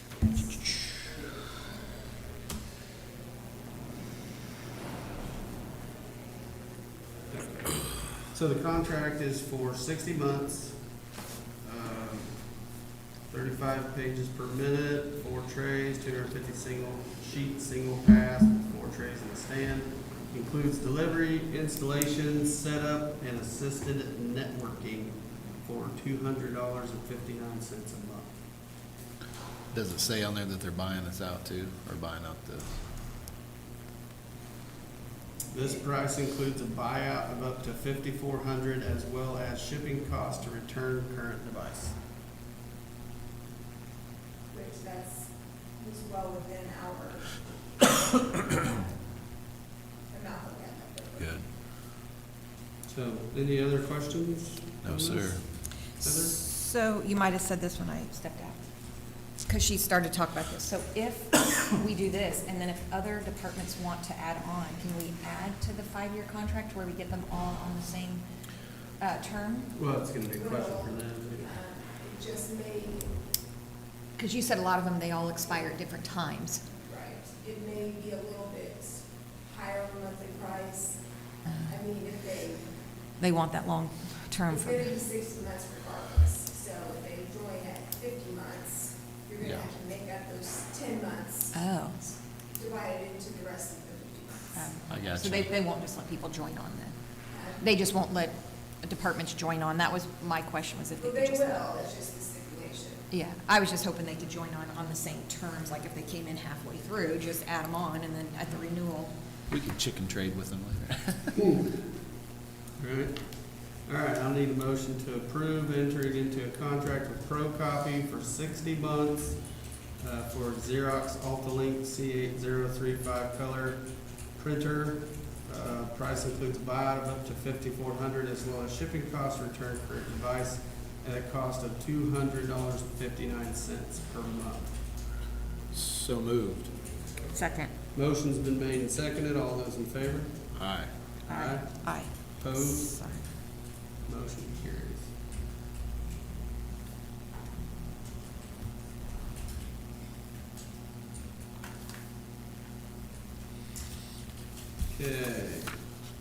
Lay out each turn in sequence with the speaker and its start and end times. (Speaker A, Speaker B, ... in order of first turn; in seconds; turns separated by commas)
Speaker A: 0.2-0.7, Speaker B: 7.3-11.0, Speaker B: 11.6-12.6, Speaker B: 13.3-28.4, Speaker C: 29.7-32.8, Speaker B: 35.5-42.0, Speaker D: 44.5-47.4, Speaker D: 50.1-51.3, Speaker C: 51.2-51.5, Speaker B: 52.9-56.5, Speaker C: 54.8-55.4, Speaker A: 56.0-58.6, Speaker A: 59.2-68.2, Speaker A: 69.0-69.7, Speaker B: 69.7-71.6, Speaker D: 70.3-73.2, Speaker A: 74.2-76.6, Speaker D: 76.7-81.0, Speaker A: 81.5-81.7, Speaker D: 81.7-82.7, Speaker A: 83.2-84.9, Speaker D: 84.5-91.6, Speaker C: 89.4-89.7, Speaker A: 91.5-92.2, Speaker D: 92.5-94.7, Speaker A: 94.5-97.0, Speaker C: 94.9-95.5, Speaker D: 97.3-97.6, Speaker A: 97.6-101.7, Speaker D: 101.0-103.1, Speaker A: 103.1-109.1, Speaker C: 109.5-111.4, Speaker B: 111.4-111.7, Speaker B: 112.8-134.8, Speaker C: 135.7-136.7, Speaker A: 137.3-137.7, Speaker B: 137.9-140.6, Speaker C: 140.5-140.9, Speaker B: 141.2-143.1, Speaker A: 141.3-143.2, Speaker B: 144.0-145.1, Speaker B: 154.9-155.8